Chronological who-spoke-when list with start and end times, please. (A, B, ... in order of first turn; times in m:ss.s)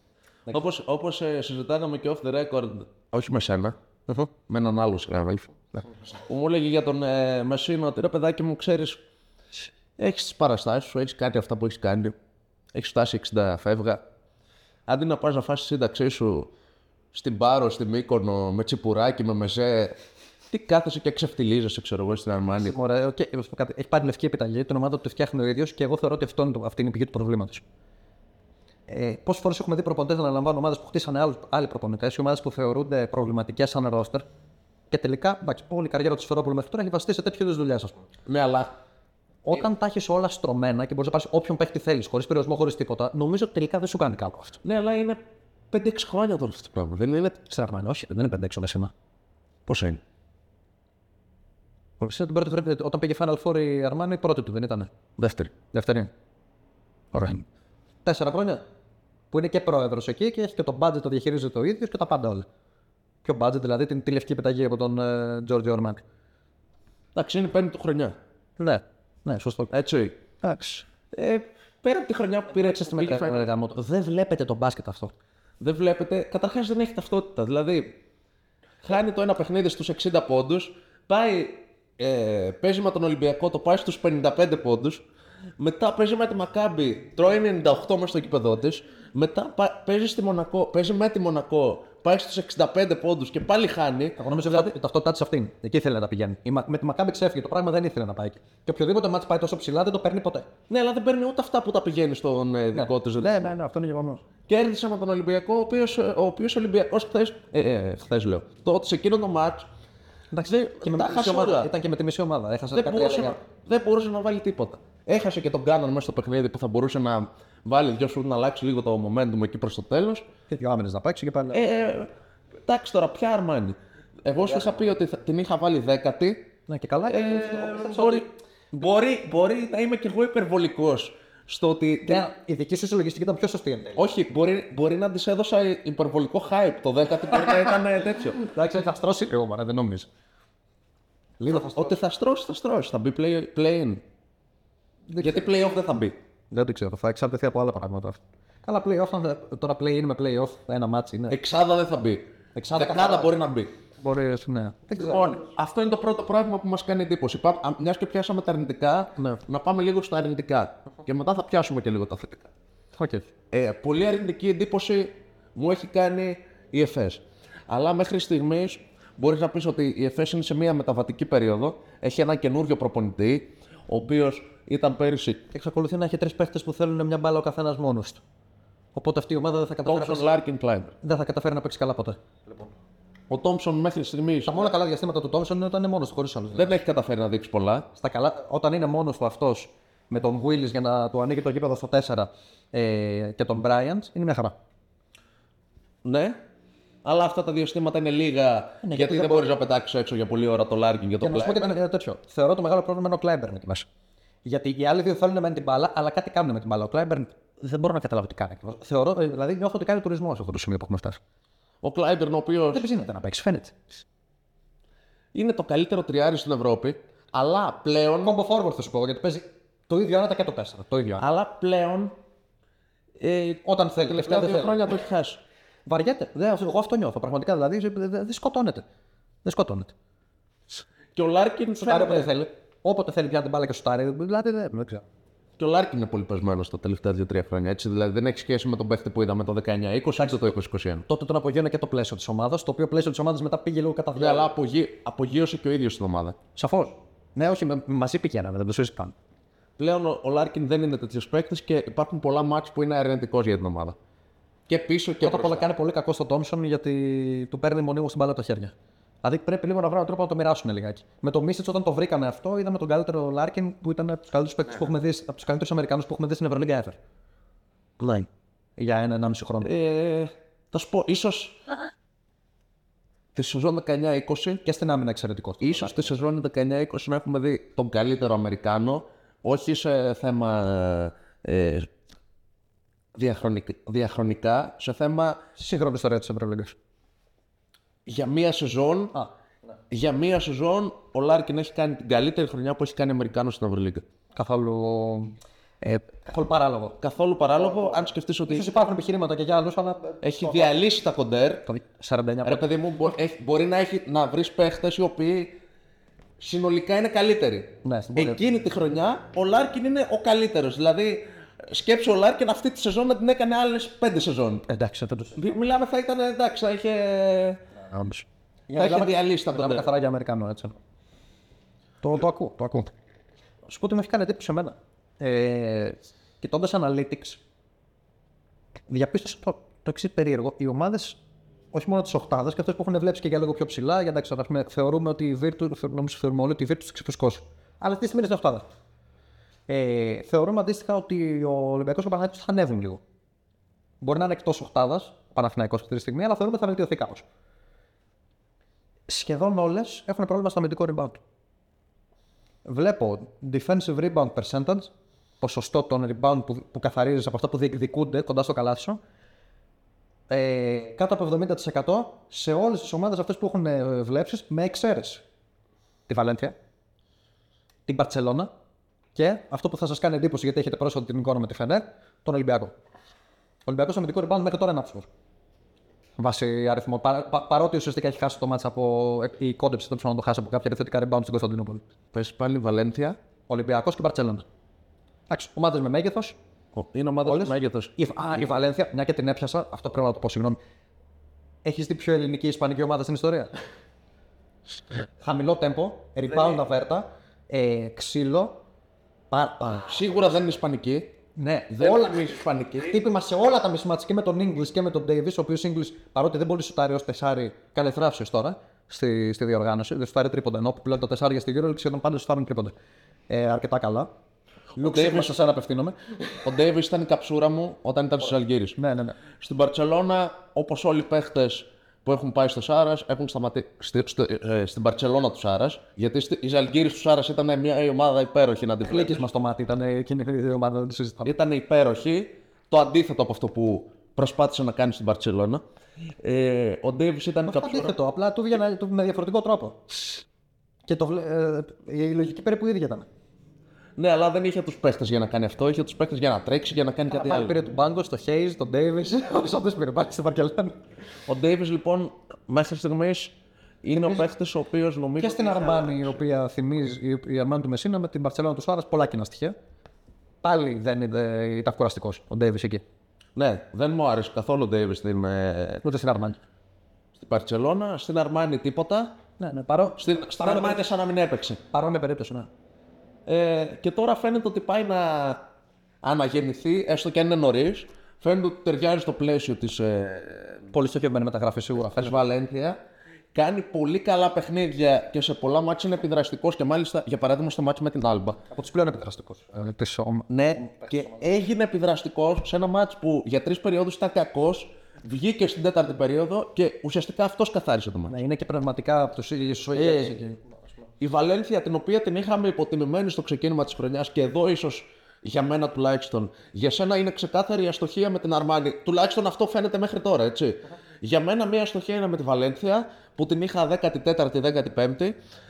0:00.5-0:03.8 A
0:04.5-0:09.0 A
0:10.0-0:12.1 A
0:12.7-0:14.0 A
0:14.9-0:16.5 A
0:17.1-0:20.0 A
0:20.5-0:22.7 A
0:22.6-0:27.6 B
0:28.9-0:34.2 B
0:34.9-0:38.0 B
0:38.3-0:38.7 A
0:39.4-0:44.6 B
0:44.6-0:45.2 A
0:45.7-0:47.4 A
0:47.5-0:48.9 B
0:49.7-0:50.0 A
0:52.0-0:54.9 B
0:55.2-0:55.5 A
0:55.7-0:56.1 B
0:57.1-0:57.4 B
0:58.0-0:58.6 B
0:59.3-1:02.4 B
1:03.2-1:06.0 B
1:07.1-1:08.1 A
1:08.6-1:09.7 B
1:09.7-1:10.2 A
1:10.4-1:10.8 B
1:11.1-1:13.4 A
1:12.5-1:15.1 B
1:15.6-1:18.0 A
1:18.8-1:25.0 A
1:25.6-1:34.7 A
1:34.2-1:40.5 B
1:40.7-1:43.4 A
1:42.7-1:44.2 B
1:44.5-1:49.6 A
1:50.3-1:53.4 B
1:50.4-1:51.7 A
1:52.7-2:00.2 A
2:00.5-2:01.6 B
2:01.5-2:02.1 A
2:02.6-2:06.5 A
2:06.7-2:08.2 B
2:07.1-2:12.2 A
2:12.0-2:14.0 B
2:14.0-2:18.4 A
2:18.4-2:20.1 B
2:21.4-2:21.9 B
2:21.5-2:24.0 A
2:25.1-2:25.4 B
2:25.2-2:26.2 A
2:26.5-2:31.4 B
2:31.3-2:32.2 A
2:32.6-2:33.3 B
2:32.8-2:33.7 A
2:34.0-2:35.4 B
2:34.9-2:42.5 A
2:43.0-2:43.2 B
2:43.5-2:55.4 A
2:55.5-2:58.2 B
2:58.9-3:00.3 B
2:59.8-3:00.9 A
3:01.0-3:02.7 B
3:03.3-3:04.6 A
3:04.4-3:06.7 B
3:06.5-3:07.9 A
3:07.9-3:14.5 B
3:16.0-3:16.4 A
3:17.0-3:21.7 A
3:18.8-3:19.5 B
3:21.2-3:23.8 B
3:24.4-3:31.2 B
3:31.8-3:32.8 A
3:32.7-3:33.7 B
3:35.3-3:38.3 A
3:38.2-3:41.2 B
3:41.2-3:42.1 A
3:43.2-3:45.4 A
3:43.6-3:44.7 B
3:45.9-3:48.8 B
3:49.4-3:49.9 B
3:51.1-3:52.3 A
3:51.8-3:55.0 B
3:55.6-4:01.0 A
4:00.2-4:00.5 B
4:01.1-4:04.5 B
4:04.2-4:06.4 A
4:06.6-4:09.1 B
4:09.8-4:14.0 A
4:14.7-4:15.7 A
4:15.2-4:27.0 B
4:28.0-4:28.3 A
4:28.8-4:29.7 B
4:29.6-4:31.6 A
4:33.3-4:34.6 A
4:34.6-4:36.1 B
4:35.6-4:41.9 A
4:43.1-4:45.4 A
4:45.6-4:46.8 B
4:48.0-4:49.1 A
4:49.9-4:54.0 A
4:54.3-4:57.0 B
4:57.0-4:58.7 A
4:58.5-5:00.7 B
5:00.2-5:01.6 A
5:01.6-5:02.6 B
5:02.4-5:05.6 A
5:06.4-5:14.6 A
5:07.8-5:08.4 B
5:14.7-5:15.4 B
5:15.4-5:17.6 A
5:17.8-5:20.8 B
5:18.8-5:19.9 A
5:22.0-5:22.9 B
5:23.6-5:27.4 B
5:28.9-5:31.2 B
5:31.7-5:38.6 B
5:39.7-5:43.0 B
5:44.0-5:47.2 B
5:49.1-5:51.2 B
5:52.6-5:54.9 B
5:55.4-5:59.0 B
6:00.3-6:05.2 B
6:06.1-6:06.5 B
6:07.9-6:08.5 B
6:09.1-6:12.7 B
6:13.6-6:15.1 B
6:16.2-6:21.8 B
6:22.1-6:23.2 A
6:23.5-6:24.4 B
6:25.3-6:26.4 B
6:26.7-6:27.9 A
6:27.2-6:30.6 B
6:31.6-6:33.5 B
6:35.2-6:38.5 B
6:39.3-6:39.9 B
6:39.8-6:41.1 A
6:41.4-6:52.7 B
6:41.7-6:43.0 A
6:53.3-6:54.1 B
6:54.8-6:55.4 A
6:54.8-6:56.1 B
6:56.4-6:58.8 A
6:58.8-6:59.2 B
6:59.4-7:09.2 A
7:08.9-7:11.3 B
7:11.2-7:15.6 A
7:16.2-7:17.9 A
7:17.4-7:20.1 B
7:20.9-7:23.1 B
7:24.0-7:27.6 A
7:27.1-7:30.8 B
7:31.3-7:36.1 A
7:33.9-7:34.2 B
7:35.2-7:39.5 B
7:40.4-7:42.8 B
7:43.4-7:45.8 A
7:45.8-7:46.4 B
7:47.2-7:49.1 A
7:49.4-7:50.8 B
7:50.0-7:51.6 A
7:51.7-7:52.5 B
7:53.2-7:55.4 A
7:56.0-8:00.7 A
8:00.7-8:02.2 B
8:02.0-8:02.8 A
8:03.3-8:08.4 A
8:08.5-8:11.1 B
8:10.3-8:18.1 A
8:18.1-8:20.4 B
8:21.0-8:35.2 A